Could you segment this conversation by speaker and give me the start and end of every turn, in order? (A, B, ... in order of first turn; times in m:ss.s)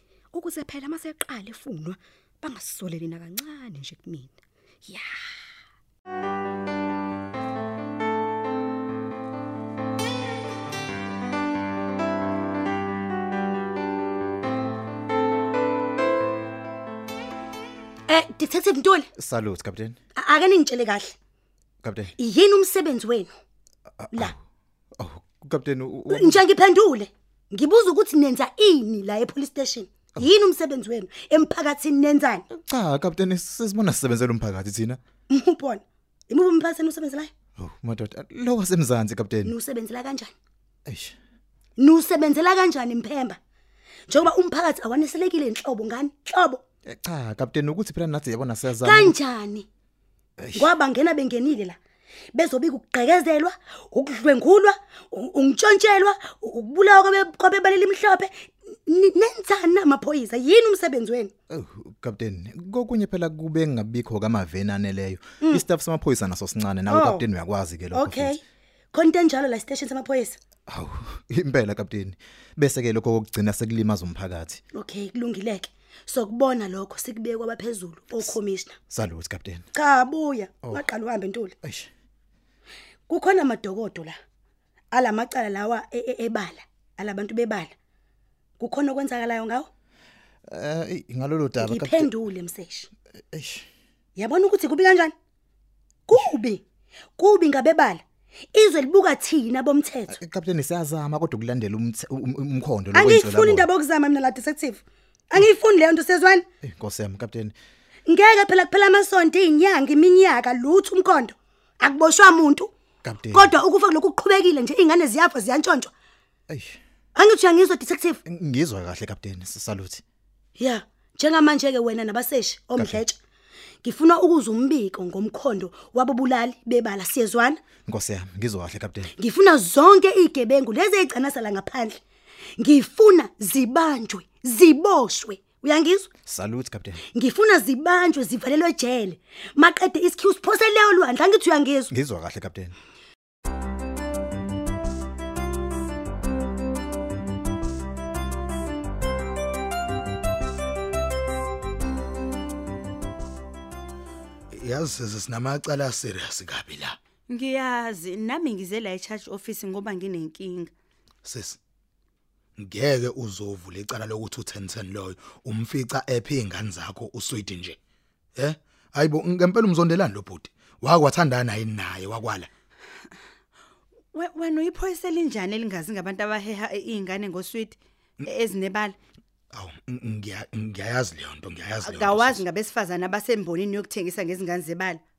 0:00.3-0:05.3 A
0:18.1-0:19.1 B
0:19.2-0:20.0 C
0:20.1-0:21.1 B
0:21.8-0:22.1 C
0:22.2-0:23.3 B
0:24.0-0:24.4 C
0:25.0-0:26.4 C
0:26.1-0:32.4 B
0:32.5-0:35.0 C
0:35.3-0:37.3 B
0:37.6-0:39.6 C
0:39.4-0:40.3 B
0:40.8-0:41.2 C
0:41.8-0:43.4 B
0:44.1-0:46.6 B
0:46.8-0:49.1 C
0:48.8-0:49.6 B
0:50.4-0:50.7 C
0:50.5-0:51.8 B
0:52.3-1:01.3 B
1:01.5-1:08.4 C
1:06.8-1:07.2 B
1:07.9-1:08.4 B
1:08.9-1:10.4 B
1:10.7-1:14.6 C
1:14.7-1:18.8 B
1:18.9-1:19.6 C
1:19.7-1:21.5 B
1:21.6-1:21.9 C
1:23.1-1:24.2 B
1:24.9-1:27.7 B
1:28.6-1:29.7 B
1:30.5-1:32.1 C
1:31.6-1:32.9 B
1:33.3-1:33.7 C
1:34.2-1:35.1 B
1:36.1-1:36.6 B
1:37.2-1:38.0 B
1:38.5-1:40.2 B
1:40.1-1:43.7 C
1:42.9-1:46.4 B
1:46.6-1:47.5 C
1:48.0-1:52.7 B
1:53.0-1:53.5 C
1:53.3-1:55.9 B
1:56.5-1:56.8 C
1:57.1-1:58.2 B
1:58.2-2:00.0 C
2:00.6-2:03.2 B
2:02.8-2:03.0 C
2:03.8-2:07.6 B
2:07.8-2:09.1 C
2:09.2-2:12.0 B
2:12.6-2:16.1 B
2:16.2-2:17.0 C
2:17.1-2:21.9 B
2:21.9-2:22.7 C
2:34.5-2:37.0 D
2:37.3-2:40.7 E
2:41.2-2:41.6 D
2:42.6-2:47.8 D
2:48.4-2:52.5 D
2:54.1-2:57.8 E
2:58.3-2:59.0 E
2:59.5-3:02.4 D
3:01.8-3:05.0 E